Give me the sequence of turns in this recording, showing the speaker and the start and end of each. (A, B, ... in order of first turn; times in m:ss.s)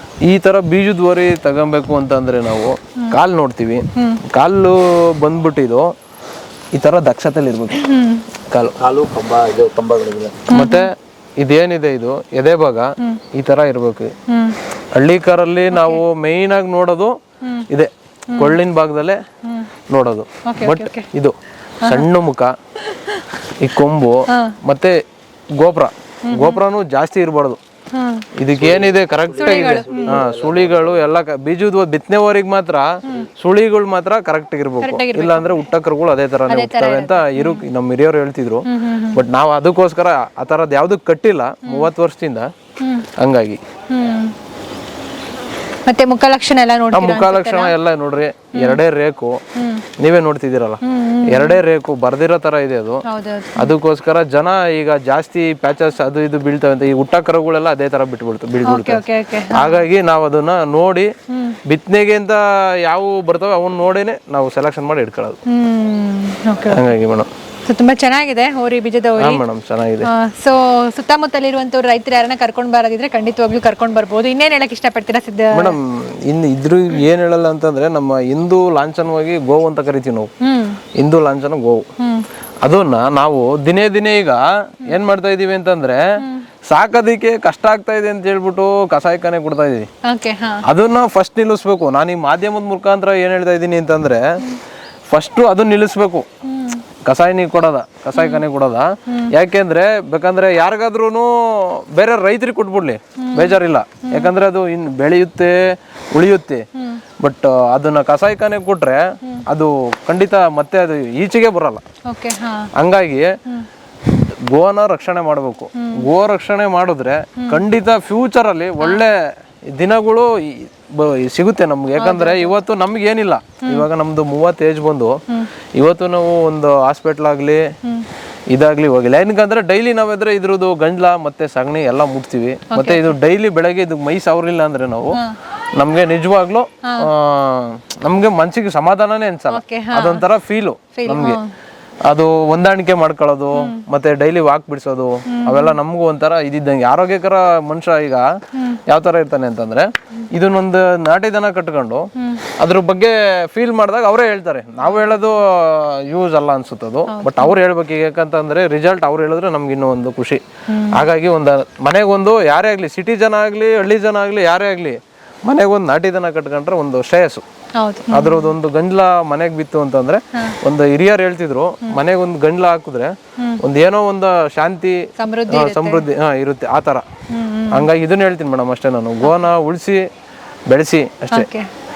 0:00.3-0:05.9 A
0:03.9-0:04.2 B
0:06.7-0:07.8 A
0:07.7-0:08.3 B
0:08.5-0:08.8 A
0:08.8-0:10.5 C
0:10.5-0:10.9 B
0:10.5-0:14.1 A
0:14.2-0:14.6 B
0:14.9-0:17.1 A
0:15.7-0:16.0 B
0:17.4-0:17.7 B
0:17.7-0:19.2 A
0:18.3-0:18.6 B
0:19.4-0:19.7 B
0:19.9-0:22.5 A
0:20.4-0:21.1 B
0:21.8-0:22.1 B
0:22.8-0:23.3 B
0:23.6-0:25.0 A
0:24.3-0:24.6 B
0:25.6-0:27.6 A
0:26.3-0:26.6 B
0:27.9-0:28.3 B
0:28.4-0:42.5 A
0:28.5-0:31.0 C
0:29.4-0:30.3 B
0:34.8-0:35.7 B
0:36.5-0:37.6 B
0:38.7-0:39.2 B
0:41.6-0:41.9 B
0:42.8-0:43.1 B
0:43.1-0:43.6 A
0:43.9-0:44.3 B
0:45.8-0:47.7 B
0:46.9-0:49.4 A
0:48.6-0:48.8 B
0:49.5-0:49.8 B
0:50.0-0:53.0 A
0:50.8-0:51.6 B
0:53.0-0:53.8 B
0:53.5-1:01.1 A
0:58.6-0:59.8 B
1:01.3-1:01.6 B
1:01.6-1:05.4 A
1:05.5-1:06.8 B
1:06.7-1:07.3 A
1:07.6-1:09.4 B
1:09.2-1:10.1 A
1:10.0-1:15.8 B
1:15.5-1:20.3 A
1:20.4-1:20.8 B
1:21.0-1:21.8 A
1:22.0-1:22.2 B
1:22.6-1:26.0 A
1:26.2-1:26.5 B
1:26.7-1:29.9 A
1:30.0-1:30.6 B
1:30.6-1:34.2 A
1:35.1-1:36.2 A
1:36.4-1:36.8 B
1:37.1-1:45.6 A
1:38.1-1:38.4 B
1:39.1-1:39.3 B
1:43.2-1:44.3 B
1:46.1-1:46.6 A
1:46.7-1:47.0 B
1:47.2-1:51.8 A
1:52.0-1:52.7 B
1:52.8-1:53.3 A
1:54.2-1:59.1 A
1:55.7-1:56.1 B
1:57.4-1:57.6 B
1:59.7-2:05.2 A
2:02.0-2:02.6 B
2:05.8-2:07.6 A
2:07.8-2:08.1 B
2:08.5-2:15.2 A
2:12.7-2:13.1 B
2:15.1-2:15.4 B
2:15.8-2:21.4 A
2:16.8-2:17.1 B
2:19.5-2:20.2 B
2:20.9-2:21.5 B
2:22.1-2:28.3 A
2:23.5-2:23.8 B
2:25.3-2:25.8 B
2:28.5-2:28.8 B
2:28.9-2:47.4 A
2:32.1-2:32.4 B
2:34.8-2:35.2 B
2:37.1-2:37.5 B
2:40.7-2:41.0 B
2:47.7-2:48.5 B
2:48.1-2:55.0 A
2:50.3-2:50.6 B
2:53.4-2:53.6 B
2:55.2-2:56.0 B
2:55.5-2:57.0 A
2:57.3-2:57.9 B
2:57.7-3:00.0 A
3:00.7-3:01.5 A
3:01.3-3:01.7 B